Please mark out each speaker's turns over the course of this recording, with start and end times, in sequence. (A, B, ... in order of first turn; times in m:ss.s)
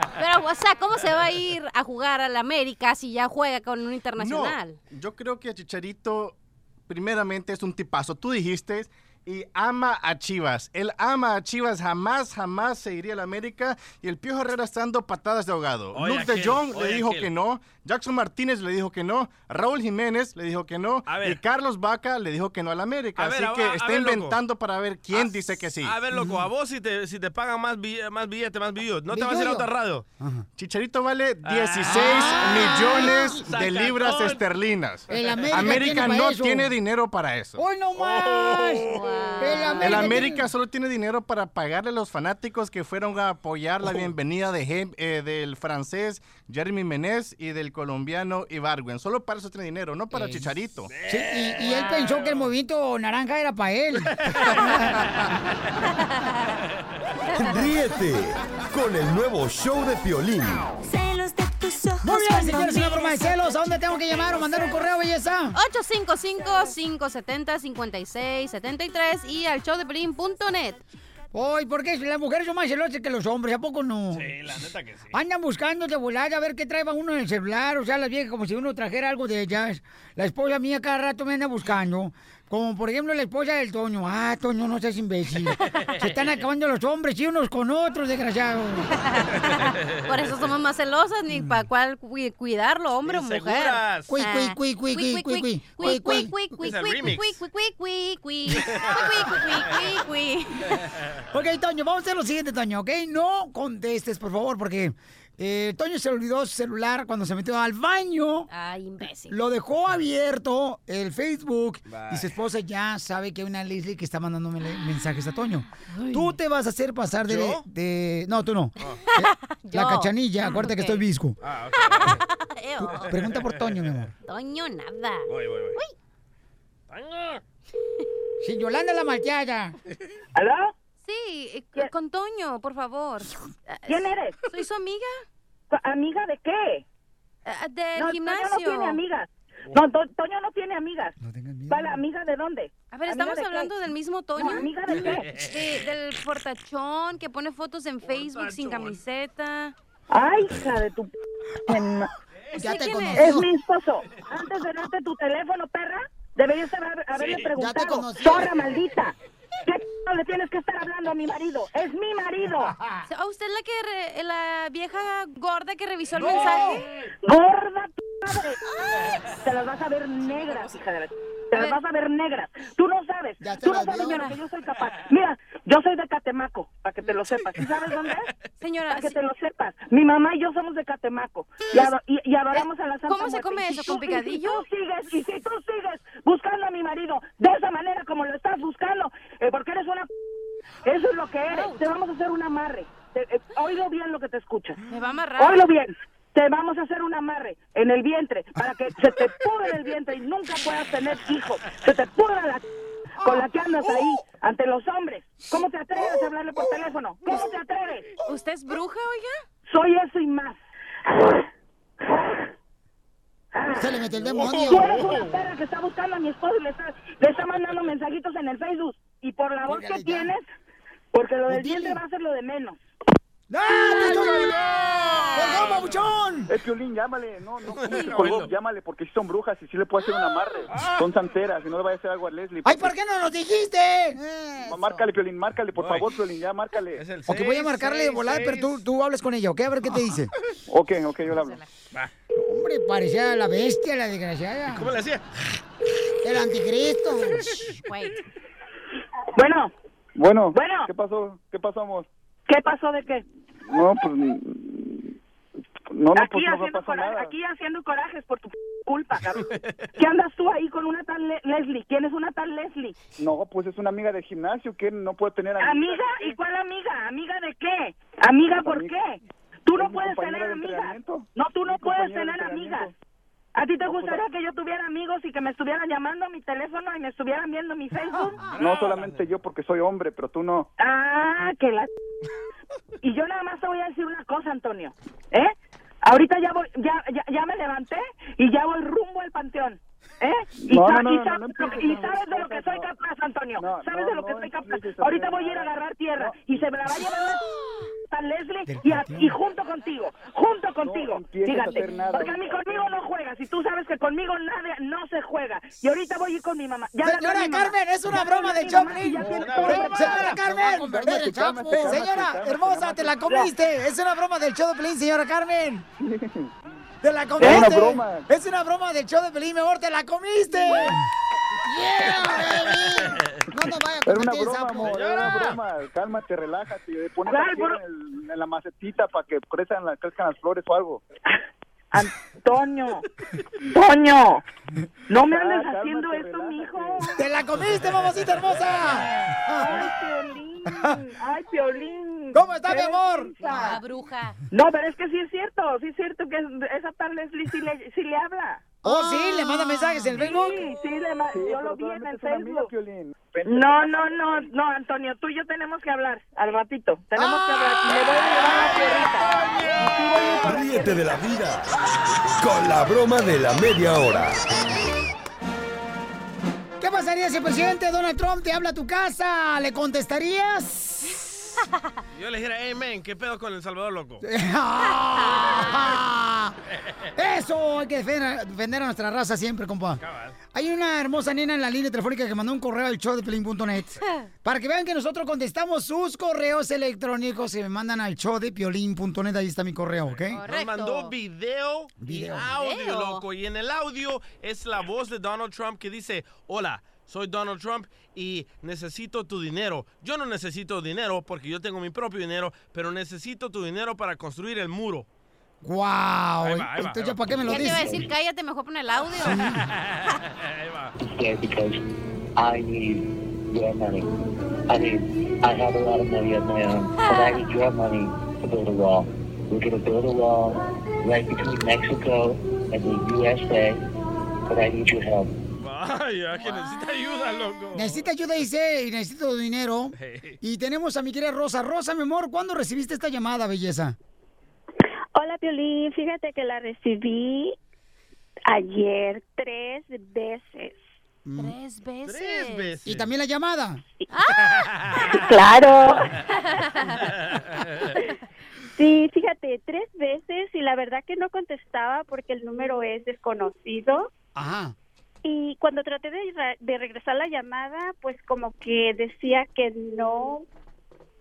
0:00.2-0:04.8 A
0:04.2-0:26.0 B
0:15.9-0:17.3 C
0:21.0-0:21.4 C
0:23.2-0:24.4 C
0:25.1-0:30.0 C
0:26.1-0:26.4 D
0:29.1-0:29.7 D
0:30.2-0:30.4 D
0:30.6-0:37.6 B
0:31.4-0:34.5 C
0:31.8-0:33.4 D
0:35.1-0:36.7 D
0:35.2-0:35.8 C
0:37.6-0:40.5 D
0:38.0-0:40.0 C
0:38.8-0:40.3 A
0:39.8-0:50.9 B
0:50.9-0:52.5 C
0:51.1-0:55.0 D
0:54.1-0:55.1 C
0:56.1-0:56.4 A
0:57.3-1:00.7 E
1:00.8-1:04.0 F
1:02.0-1:05.6 D
1:05.5-1:10.8 A
1:11.3-1:14.3 D
1:14.1-1:15.1 C
1:15.1-1:28.9 D
1:28.9-1:40.8 A
1:29.9-1:30.5 C
1:31.3-1:31.6 D
1:33.0-1:34.2 C
1:34.1-1:36.3 D
1:36.5-1:37.4 C
1:38.5-1:39.7 C
1:41.3-1:48.5 D
1:48.5-1:49.4 A
1:49.3-2:01.4 D
1:51.9-1:52.3 C
1:55.9-1:56.3 A
1:57.2-1:57.6 C
1:59.1-2:01.0 A
2:01.4-2:02.2 C
2:01.8-2:03.1 A
2:02.8-2:04.1 D
2:03.4-2:03.8 C
2:04.2-2:05.9 A
2:05.3-2:05.8 C
2:06.9-2:07.4 C
2:08.4-2:09.7 D
2:10.3-2:10.7 G
2:11.0-2:15.2 A
2:13.9-2:14.4 G
2:15.7-2:16.8 G
2:17.4-2:19.0 A
2:18.0-2:21.2 G
2:21.2-2:22.0 D
2:21.7-2:23.7 G
2:22.9-2:29.7 A
2:24.4-2:25.4 G
2:25.1-2:25.8 C
2:28.0-2:29.0 C
2:30.1-2:31.1 G
2:31.7-2:32.1 G
2:32.5-2:33.5 D
2:32.6-2:33.4 A
2:33.1-2:39.1 G
2:37.1-2:37.5 C
2:37.6-2:38.5 D
2:39.6-2:42.7 G
2:43.1-2:46.8 A
2:47.2-2:48.6 G
2:49.4-2:58.3 G
2:53.4-2:54.3 D
2:53.8-2:54.3 A
2:58.6-2:59.2 A
2:58.9-3:10.1 G
3:01.6-3:01.9 A
3:02.5-3:04.6 A
3:10.8-3:14.8 G
3:11.5-3:11.8 A
3:14.9-3:15.6 A
3:15.4-3:22.6 G
3:23.2-3:28.1 G
3:28.2-3:29.4 A
3:29.6-3:30.6 G
3:31.1-3:31.4 G
3:33.5-3:33.9 G
3:33.8-3:34.9 D
3:34.3-3:35.1 C
3:34.5-3:40.4 G
3:39.6-3:40.3 D
3:41.1-3:42.8 G
3:41.5-3:42.0 D
3:43.5-3:44.6 D
3:44.0-3:44.5 A
3:44.1-3:45.9 C
3:45.0-3:45.8 A
3:45.3-3:46.5 D
3:46.5-3:52.9 H
3:47.7-3:48.5 C
3:50.7-3:51.1 C
3:52.6-3:55.0 D
3:54.6-3:57.0 H
3:55.7-3:56.0 C
3:56.9-3:58.8 C
3:57.3-4:00.3 D
4:00.7-4:01.6 H
4:01.3-4:01.6 A
4:02.4-4:04.9 D
4:04.7-4:05.2 C
4:06.2-4:07.5 D
4:07.6-4:08.2 A
4:09.3-4:09.7 G
4:10.2-4:12.1 H
4:10.5-4:10.9 G
4:12.5-4:13.2 G
4:13.7-4:15.2 H
4:15.9-4:17.3 H
4:16.2-4:19.4 G
4:19.3-4:19.7 C
4:20.0-4:23.0 G
4:23.2-4:26.4 H
4:25.6-4:32.9 G
4:28.5-4:28.9 H
4:29.7-4:32.9 H
4:33.5-4:38.4 G
4:33.8-4:34.2 H
4:38.5-4:39.2 C
4:38.6-4:40.7 H
4:40.8-4:41.9 G
4:43.0-4:57.4 G
4:50.6-4:52.9 H
4:53.6-4:57.1 H
4:58.1-5:10.4 G
4:58.7-4:59.4 D
5:00.8-5:02.9 H
5:07.0-5:15.8 D
5:09.2-5:10.1 C
5:09.2-5:13.3 H
5:16.0-5:16.5 H
5:17.0-5:21.0 D
5:17.4-5:18.3 H
5:20.6-5:20.9 H
5:21.6-5:24.9 D
5:22.2-5:23.4 C
5:23.5-5:31.0 H
5:24.8-5:25.6 C
5:27.3-5:27.8 G
5:31.9-5:33.0 G
5:33.7-5:34.4 G
5:35.1-5:37.2 G
5:35.1-5:37.1 H
5:37.2-5:39.9 D
5:39.5-5:43.8 G
5:40.7-5:41.0 D
5:42.3-5:43.4 D
5:43.4-5:44.4 A
5:44.5-5:49.6 G
5:48.8-5:50.7 D
5:50.1-5:52.7 G
5:51.3-5:54.4 H
5:53.4-6:01.0 G
6:00.4-6:04.4 E
6:06.8-6:11.2 D
6:12.1-6:14.2 C
6:14.2-6:16.5 D
6:15.2-6:16.0 A
6:17.2-6:20.0 D
6:20.0-6:20.4 C
6:20.5-6:30.4 D
6:30.1-6:45.1 C
6:30.3-6:31.1 A
6:32.0-6:32.5 D
6:32.5-6:33.2 A
6:45.6-6:48.0 D
6:46.4-6:47.6 C
6:47.4-6:49.5 A
6:47.6-6:48.1 I
6:49.2-6:49.7 D
6:49.5-6:50.9 C
6:51.0-6:51.8 I
6:52.4-6:54.1 I
6:54.7-7:03.8 I
6:57.0-6:57.4 A
7:04.5-7:05.3 I
7:05.6-7:08.0 C
7:07.7-7:14.0 D
7:10.0-7:10.4 C
7:15.1-7:17.6 J
7:18.5-7:20.8 J
7:21.2-7:21.5 D
7:21.4-7:22.8 A
7:22.0-7:23.0 C
7:22.8-7:23.8 D
7:24.1-7:24.6 A
7:24.5-7:25.1 C
7:25.1-7:25.9 J
7:26.3-7:27.2 A
7:27.0-7:28.0 C
7:28.8-7:34.1 J
7:34.3-7:34.7 D
7:35.2-7:40.4 J